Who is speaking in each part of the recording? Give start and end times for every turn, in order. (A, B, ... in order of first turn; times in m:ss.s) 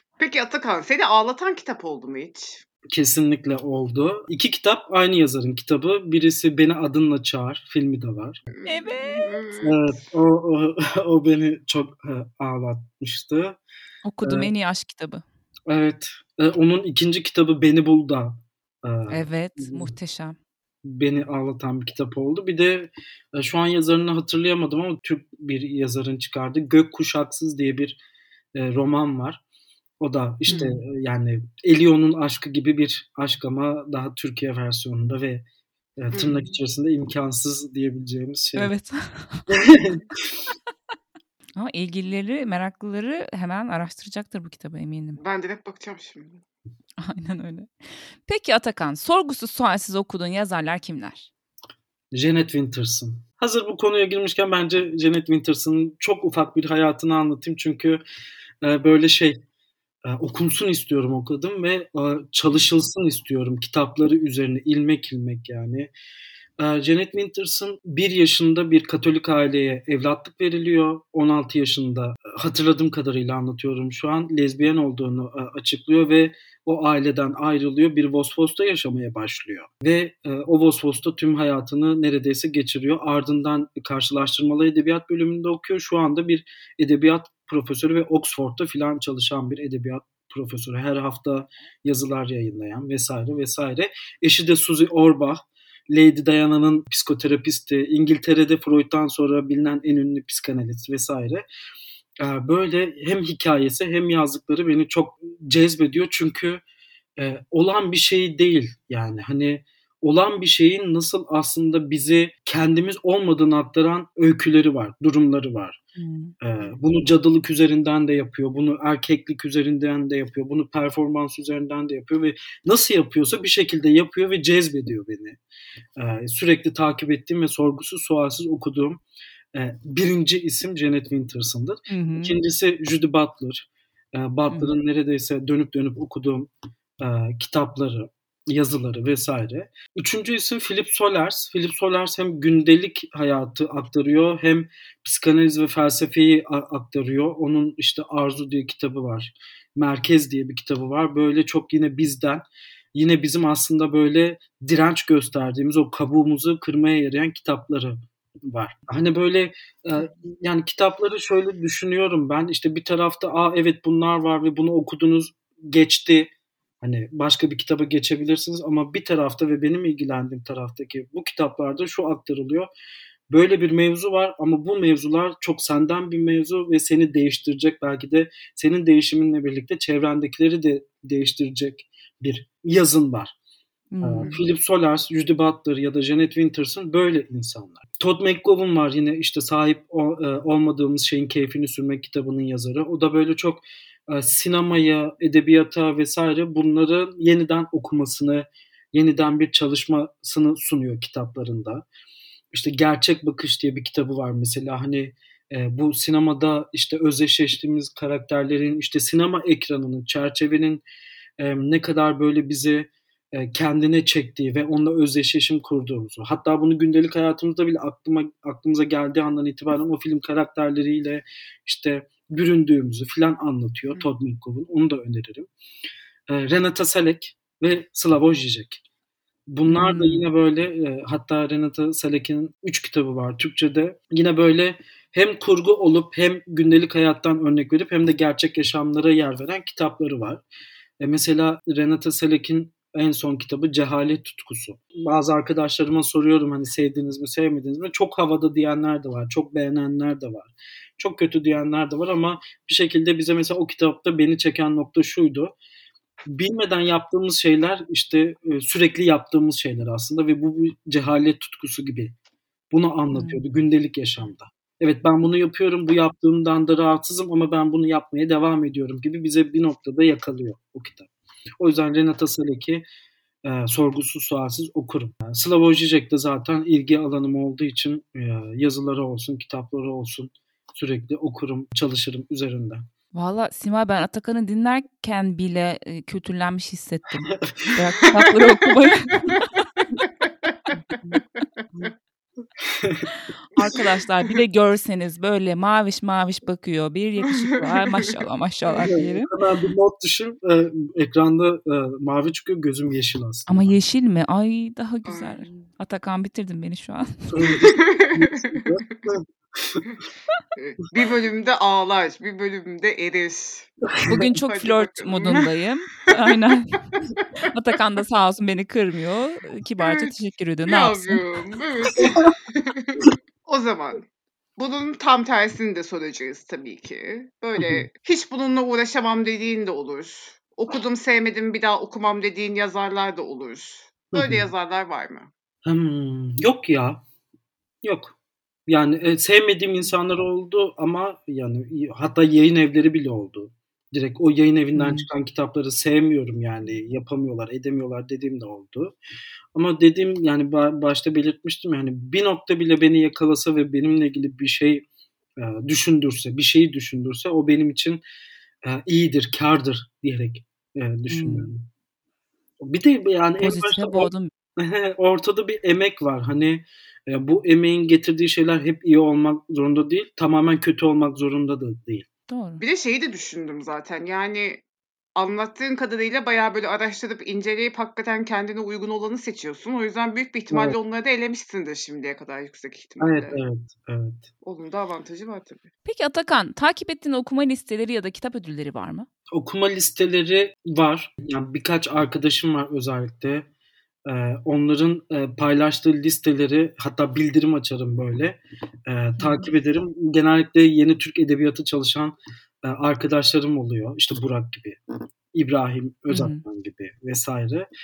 0:00.2-0:02.6 A
0:02.9-0:08.4 B
0:08.5-0:10.0 A
0:08.7-0:09.3 C
0:09.6-0:13.6 B
0:14.0-0:15.2 C
0:14.2-0:14.5 B
0:15.7-0:19.9 B
0:19.1-0:20.4 C
0:20.8-0:28.0 B
0:28.5-0:29.4 B
0:30.0-0:35.4 B
0:30.5-0:30.8 C
0:36.0-0:38.7 B
0:36.1-0:36.6 A
0:38.6-0:39.5 C
0:39.5-0:40.3 B
0:41.6-0:45.2 C
0:45.2-0:46.4 A
0:47.0-0:47.7 C
0:48.2-0:51.3 C
0:52.1-0:58.0 B
0:58.6-0:59.4 B
1:00.0-1:05.9 B
1:06.6-1:41.4 B
1:42.2-1:46.6 B
1:47.2-1:55.8 B
1:56.0-1:56.3 C
1:56.4-2:05.4 B
2:06.0-2:09.0 B
2:09.5-2:52.7 B
2:11.9-2:12.4 C
2:53.3-3:03.4 B
3:03.9-3:04.4 C
3:04.0-3:21.8 B
3:22.5-3:30.8 B
3:31.4-3:45.5 B
3:46.3-3:48.8 B
3:49.5-4:00.4 B
3:49.7-3:50.2 C
4:01.0-4:15.6 B
4:16.2-4:22.2 B
4:22.7-4:32.8 B
4:23.1-4:23.4 C
4:33.4-4:42.8 B
4:43.1-4:49.5 C
4:52.6-4:53.1 B
4:53.5-4:59.3 C
4:57.3-4:58.1 A
4:58.8-5:03.8 B
5:03.5-5:07.4 C
5:05.0-5:05.7 A
5:07.3-5:09.8 B
5:07.6-5:09.0 A
5:10.6-5:15.5 A
5:14.0-5:16.9 C
5:16.1-5:16.3 A
5:17.5-5:21.2 C
5:19.8-5:20.1 A
5:20.7-5:24.0 A
5:22.0-5:22.3 B
5:24.6-5:35.3 A
5:27.6-5:27.8 B
5:34.1-5:34.5 B
5:35.6-5:37.0 B
5:37.8-5:38.2 B
5:38.7-5:48.9 B
5:44.8-5:45.1 C
5:49.5-5:54.8 B
5:55.4-5:58.0 B
5:58.6-6:01.7 B
6:01.1-6:01.5 C
6:02.6-6:12.1 B
6:03.4-6:04.3 C
6:12.3-6:12.6 C
6:12.6-6:14.6 A
6:15.2-6:23.4 A
6:20.5-6:20.8 B
6:23.0-6:24.3 B
6:24.4-6:25.7 A
6:25.8-6:29.1 C
6:29.3-6:33.5 B
6:34.1-6:44.8 B
6:39.2-6:39.5 C
6:45.3-6:47.7 B
6:46.1-6:46.4 C